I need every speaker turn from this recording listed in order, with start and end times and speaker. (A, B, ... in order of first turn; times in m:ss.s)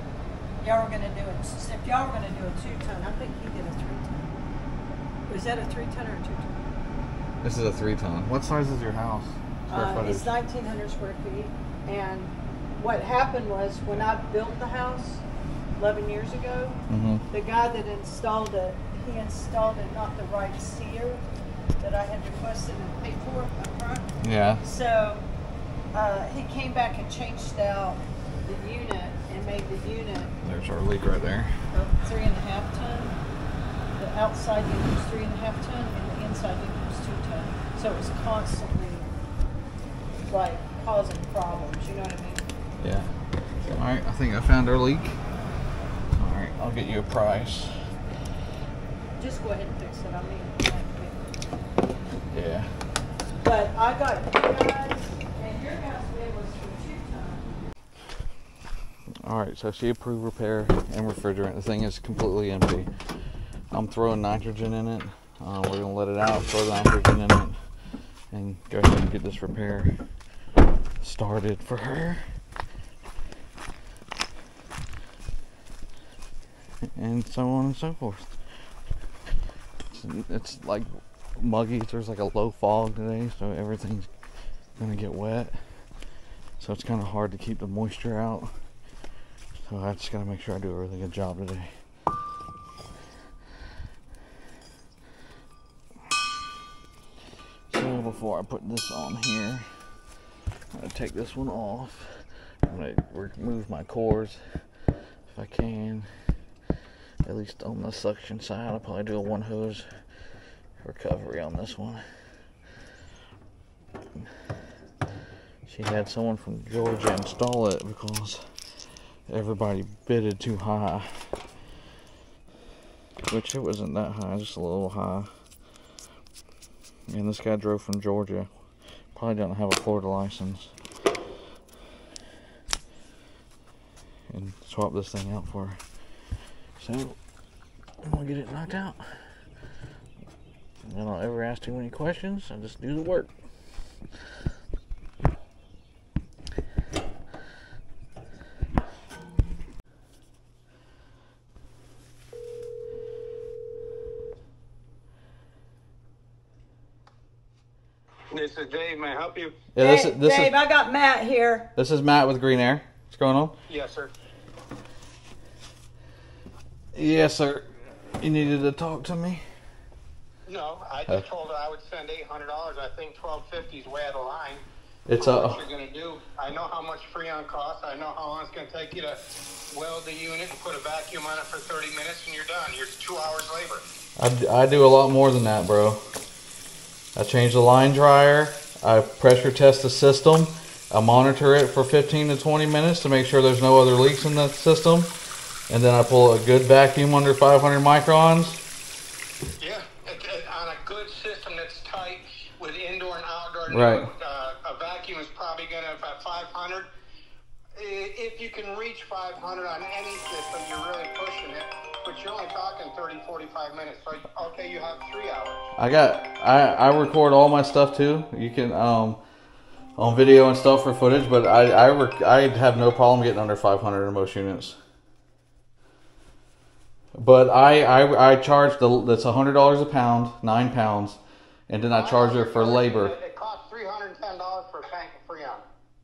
0:00.6-0:04.3 A
0:05.3-0:06.7 A
0:07.4-0:10.3 B
0:09.7-0:15.2 A
0:15.8-0:16.8 A
0:16.9-0:17.2 B
0:17.3-0:21.2 A
0:21.8-0:25.2 A
0:24.2-0:24.6 B
0:25.9-0:30.4 A
0:30.4-0:31.5 B
0:31.7-0:33.2 A
0:34.0-0:39.1 A
0:40.3-0:42.4 A
0:42.8-0:43.1 B
0:43.7-0:45.2 B
0:46.1-0:47.8 B
0:49.2-0:51.4 A
0:52.3-0:52.7 B
0:53.4-0:57.5 A
0:59.2-1:02.9 B
1:03.7-1:07.6 B
1:08.3-1:10.0 B
1:11.0-1:12.2 B
1:17.0-1:18.4 B
1:19.9-1:24.1 B
1:24.8-1:25.8 B
1:26.6-1:28.5 B
1:29.7-1:31.7 B
1:37.7-1:39.6 B
1:40.7-1:44.4 B
1:45.3-1:46.1 B
1:47.2-1:49.9 B
1:50.8-1:52.0 B
1:55.6-1:58.4 B
1:59.3-2:01.4 B
2:03.3-2:05.3 B
2:07.1-2:08.5 B
2:09.1-2:10.7 B
2:14.3-2:15.8 B
2:16.8-2:17.2 B
2:18.0-2:19.2 B
2:20.8-2:23.3 B
2:38.3-2:39.6 C
2:39.7-2:40.5 B
2:39.8-2:41.7 A
2:41.8-2:43.6 B
2:43.7-2:44.1 C
2:46.9-2:49.4 B
2:50.5-3:03.8 C
2:55.1-2:55.6 B
3:04.2-3:06.0 B
3:07.2-3:15.1 B
3:15.7-3:18.6 B
3:19.6-3:26.9 C
3:23.7-3:24.1 B
3:27.8-3:35.7 C
3:35.8-3:39.2 B
3:40.0-3:44.8 B
3:47.2-3:53.1 B
3:51.9-3:55.6 C